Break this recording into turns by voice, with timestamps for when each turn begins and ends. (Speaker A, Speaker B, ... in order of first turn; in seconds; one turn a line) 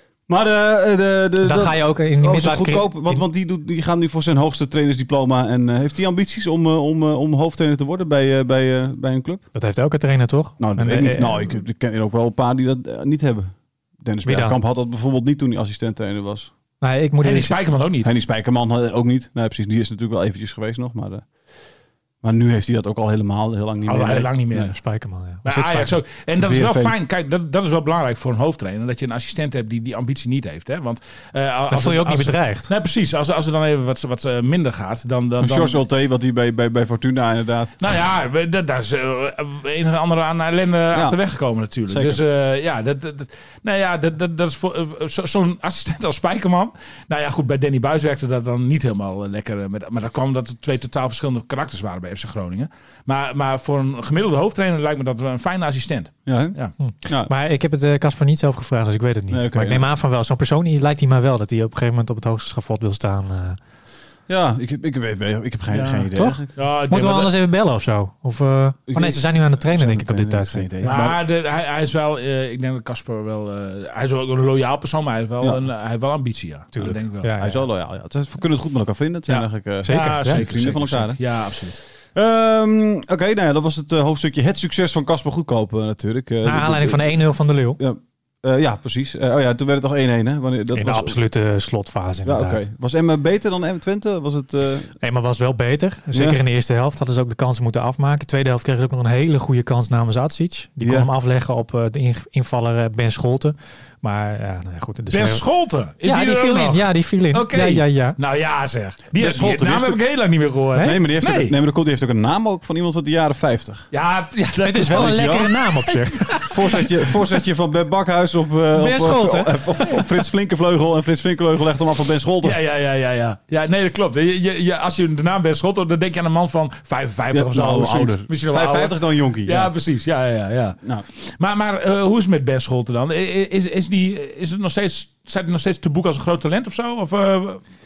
Speaker A: 0.3-9.5
Speaker B: 1.4-3.3
Speaker B: 9.5-11.6
Speaker A: 10.6-16.5
Speaker B: 14.2-14.6
Speaker B: 16.8-17.6
Speaker C: 17.2-18.1
Speaker A: 18.0-21.6
Speaker A: 22.2-24.7
Speaker C: 23.9-35.8
Speaker B: 24.0-26.0
Speaker A: 26.4-26.9
Speaker B: 31.7-32.7
Speaker A: 35.4-37.8
Speaker C: 37.8-56.8
Speaker A: 40.9-41.2
Speaker A: 41.9-42.2
Speaker A: 56.2-57.3
Speaker B: 56.8-63.6
Speaker A: 59.3-59.9
Speaker A: 64.3-66.5
Speaker C: 65.7-67.3
Speaker B: 66.2-71.0
Speaker A: 68.9-71.2
Speaker C: 70.8-77.3
Speaker B: 76.8-77.7
Speaker A: 77.4-91.2
Speaker C: 79.3-81.8
Speaker B: 79.8-80.5
Speaker B: 86.4-87.8
Speaker B: 90.7-92.7
Speaker A: 92.2-95.0
Speaker B: 95.0-105.5
Speaker A: 96.1-96.4
Speaker A: 100.8-101.1
Speaker C: 105.1-111.5
Speaker B: 106.0-108.2
Speaker A: 109.2-110.0
Speaker A: 110.8-113.9
Speaker C: 113.9-116.9
Speaker B: 114.6-116.5
Speaker A: 114.9-115.5
Speaker A: 116.5-122.6
Speaker B: 118.7-120.0
Speaker C: 122.4-137.7
Speaker A: 127.3-129.7